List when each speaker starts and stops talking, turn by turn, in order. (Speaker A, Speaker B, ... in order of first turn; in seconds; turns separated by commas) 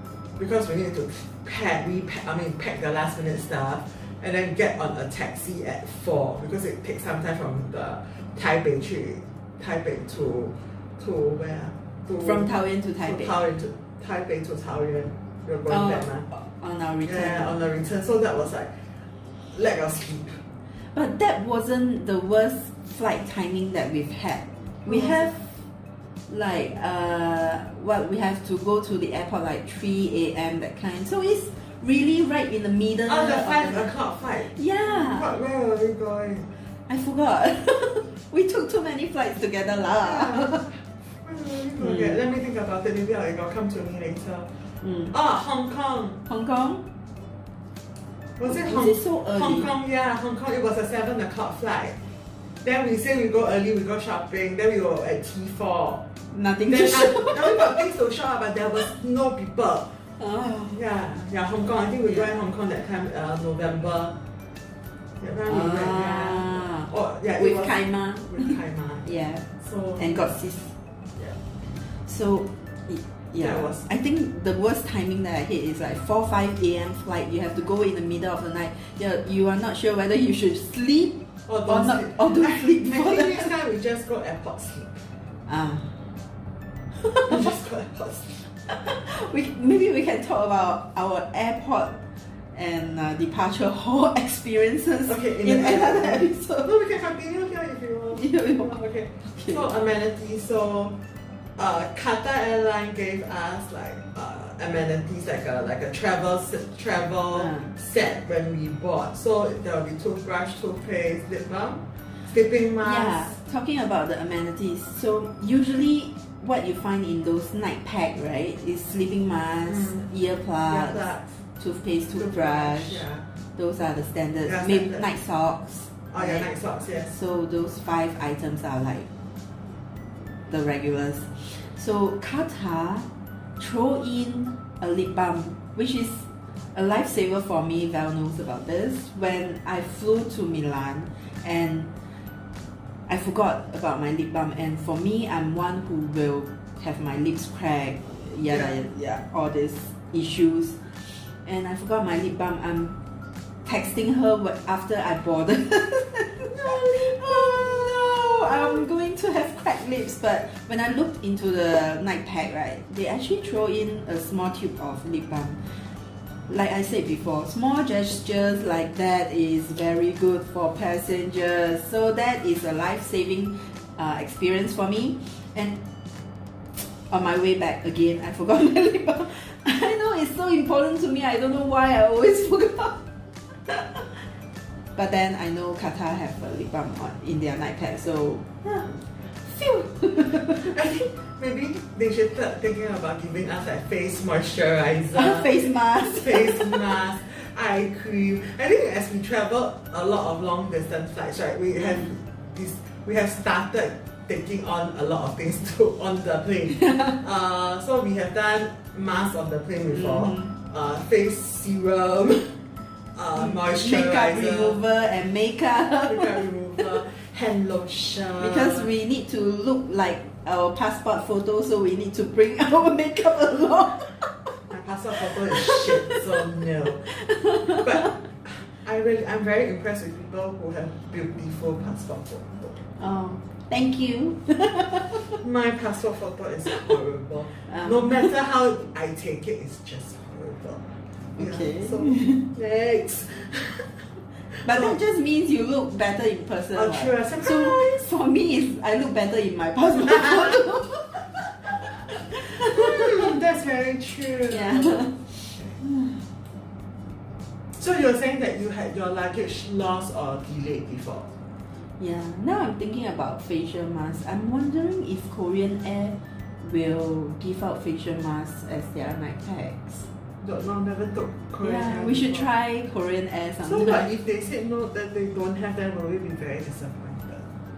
Speaker A: 0.4-16.3, Speaker B: 12.2-13.3, Speaker B: 15.7-17.5, Speaker A: 17.1-18.9, Speaker A: 19.5-20.4, Speaker B: 20.9-25.6, Speaker A: 24.9-25.3, Speaker B: 26.3-33.9, Speaker A: 33.1-36.5, Speaker B: 34.5-35.3, Speaker B: 36.9-40.7, Speaker A: 40.0-46.2, Speaker B: 41.8-42.2, Speaker B: 44.8-45.1, Speaker B: 46.3-46.8, Speaker A: 48.4-52.0, Speaker B: 48.5-49.7, Speaker A: 52.6-56.0, Speaker B: 56.3-57.9, Speaker A: 56.7-60.0, Speaker B: 60.2-60.8, Speaker A: 60.7-64.2, Speaker A: 65.2-70.3, Speaker B: 65.5-69.5, Speaker B: 70.0-70.7, Speaker B: 72.0-83.5, Speaker A: 73.4-73.9, Speaker A: 81.5-85.0, Speaker B: 85.5-85.9, Speaker B: 87.0-87.5, Speaker A: 87.2-88.5, Speaker B: 88.7-92.0, Speaker B: 92.5-96.7, Speaker A: 95.0-101.0, Speaker B: 98.1-98.8, Speaker B: 99.4-99.6, Speaker A: 101.5-113.4, Speaker B: 107.3-107.7, Speaker B: 112.8-123.0, Speaker A: 119.7-120.0, Speaker A: 120.6-121.4, Speaker A: 122.1-123.2, Speaker B: 123.5-126.5, Speaker A: 124.4-125.0, Speaker A: 126.1-127.2, Speaker B: 127.1-129.1, Speaker B: 130.5-141.9, Speaker B: 143.1-153.0, Speaker A: 148.4-148.8, Speaker B: 153.6-165.9, Speaker A: 156.5-158.9, Speaker B: 166.5-175.8, Speaker B: 177.1-183.0, Speaker B: 183.7-184.2, Speaker B: 184.9-190.7, Speaker A: 190.4-212.6, Speaker B: 195.1-196.9, Speaker B: 201.8-202.1, Speaker B: 206.8-207.2, Speaker B: 209.9-210.6, Speaker A: 213.1-214.8, Speaker B: 213.4-216.9, Speaker A: 216.1-218.9, Speaker B: 218.4-224.6, Speaker A: 224.7-227.1, Speaker B: 225.2-226.5, Speaker B: 227.1-228.1, Speaker A: 227.7-232.8, Speaker B: 233.0-235.4, Speaker A: 235.4-245.0, Speaker B: 237.7-238.3, Speaker B: 241.4-242.5, Speaker B: 244.6-253.3, Speaker A: 246.7-248.1, Speaker A: 250.0-250.7, Speaker A: 252.5-255.8, Speaker B: 254.5-256.2, Speaker A: 257.7-261.3, Speaker B: 262.0-270.1, Speaker A: 270.4-272.5, Speaker B: 271.6-274.1, Speaker A: 273.6-277.5